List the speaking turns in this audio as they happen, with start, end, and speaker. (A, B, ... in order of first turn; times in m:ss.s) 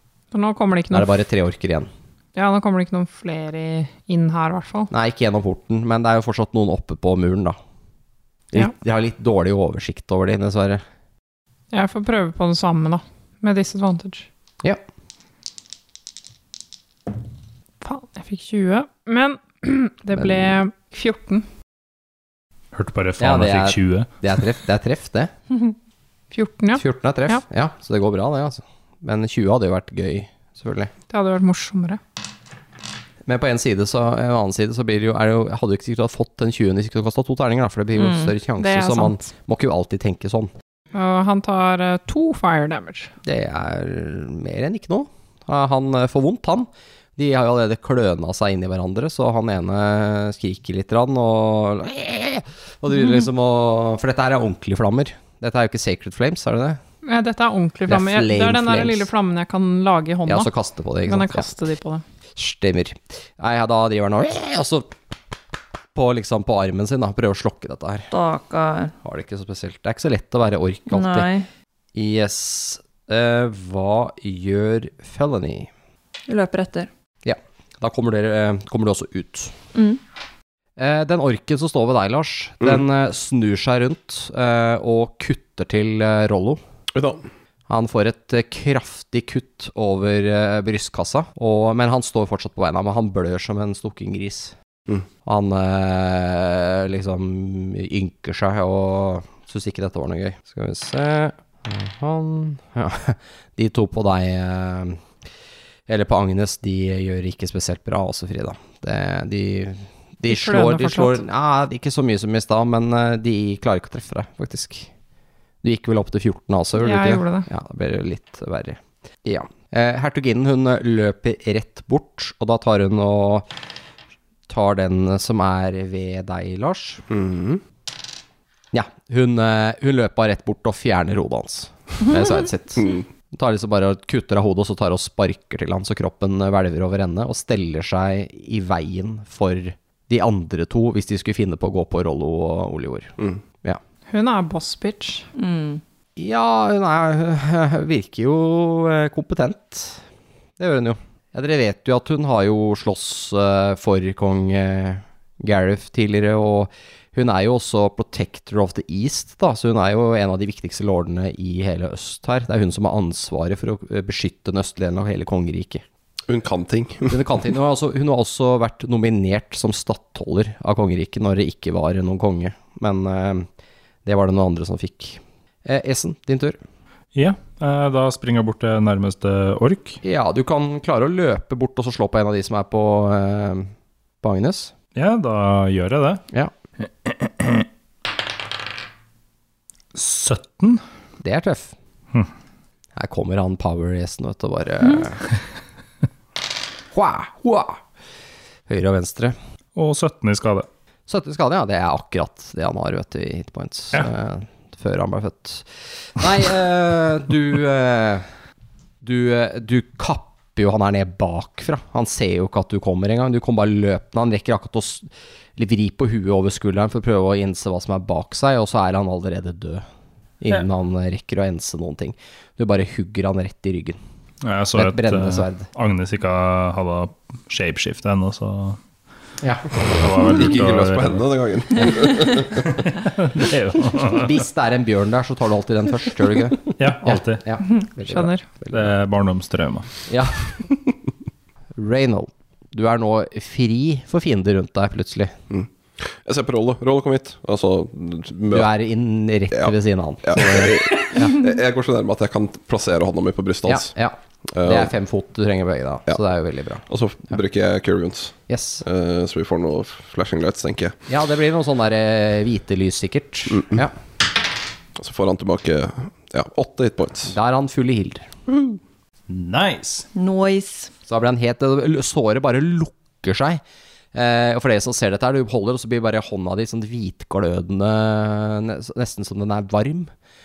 0:00.3-0:01.1 A
0:00.9-0:01.9 B
0:02.3-0:04.9 A
0:04.9-0:07.6 B
0:08.5-0:10.8 B
0:11.7-0:14.3 A
0:17.8-0:21.4 A
0:20.1-0:20.6 B
0:22.7-0:24.1 C
0:23.2-0:25.3 B
0:26.3-0:27.4 A
0:26.7-0:30.9 B
0:31.1-0:32.0 A
0:33.2-0:40.5 B
0:38.0-0:38.3 D
0:38.6-0:39.3 A
0:40.9-0:43.1 A
0:43.2-0:56.8 B
0:57.0-1:00.5 A
0:57.9-0:59.1 B
1:00.3-1:01.5 B
1:01.0-1:02.0 A
1:02.4-1:04.9 B
1:05.9-1:08.1 B
1:08.1-1:08.9 D
1:09.0-1:11.3 B
1:10.9-1:11.5 D
1:11.9-1:15.7 B
1:16.3-1:16.9 D
1:17.2-1:19.5 B
1:19.7-1:20.0 D
1:20.8-1:26.6 B
1:26.9-1:27.2 E
1:27.7-1:34.5 B
1:35.2-1:45.0 B
1:45.9-1:54.9 B
1:50.3-1:51.2 A
1:55.6-2:03.5 B
1:56.8-1:57.5 A
2:04.5-2:07.0 B
2:07.1-2:07.6 E
2:08.7-2:23.8 B
2:12.8-2:13.0 E
2:24.1-2:25.3 A
2:25.3-2:25.8 D
2:26.2-2:30.0 B
2:30.6-2:45.8 B
2:46.3-2:47.2 E
2:47.1-2:53.5 B
2:54.0-2:56.6 B
2:57.1-3:00.0 C
3:00.0-3:03.7 B
3:04.2-3:04.7 B
3:04.9-3:06.2 C
3:07.0-3:07.6 C
3:09.9-3:10.8 C
3:11.2-3:11.7 B
3:13.0-3:15.2 B
3:16.9-3:17.8 B
3:18.7-3:19.3 B
3:19.8-3:20.7 C
3:21.1-3:28.3 B
3:29.0-3:39.8 B
3:40.4-3:44.0 B
3:44.4-3:48.8 C
3:44.7-3:45.7 B
3:49.4-3:49.7 B
3:49.8-3:51.2 C
3:50.2-3:52.8 E
3:52.8-3:54.3 C
3:54.1-3:58.9 B
3:56.8-3:57.4 C
3:58.0-3:58.5 A
3:58.7-3:59.9 C
4:00.0-4:00.4 B
4:01.8-4:05.3 B
4:05.5-4:08.7 E
4:08.5-4:11.4 B
4:10.2-4:13.9 E
4:13.6-4:16.8 B
4:14.5-4:14.9 E
4:16.9-4:21.0 E
4:18.5-4:18.8 B
4:21.1-4:23.9 B
4:23.5-4:23.8 E
4:25.0-4:27.3 E
4:27.2-4:28.3 B
4:29.3-4:30.1 C
4:30.1-4:30.9 D
4:31.1-4:33.6 B
4:34.1-4:40.1 B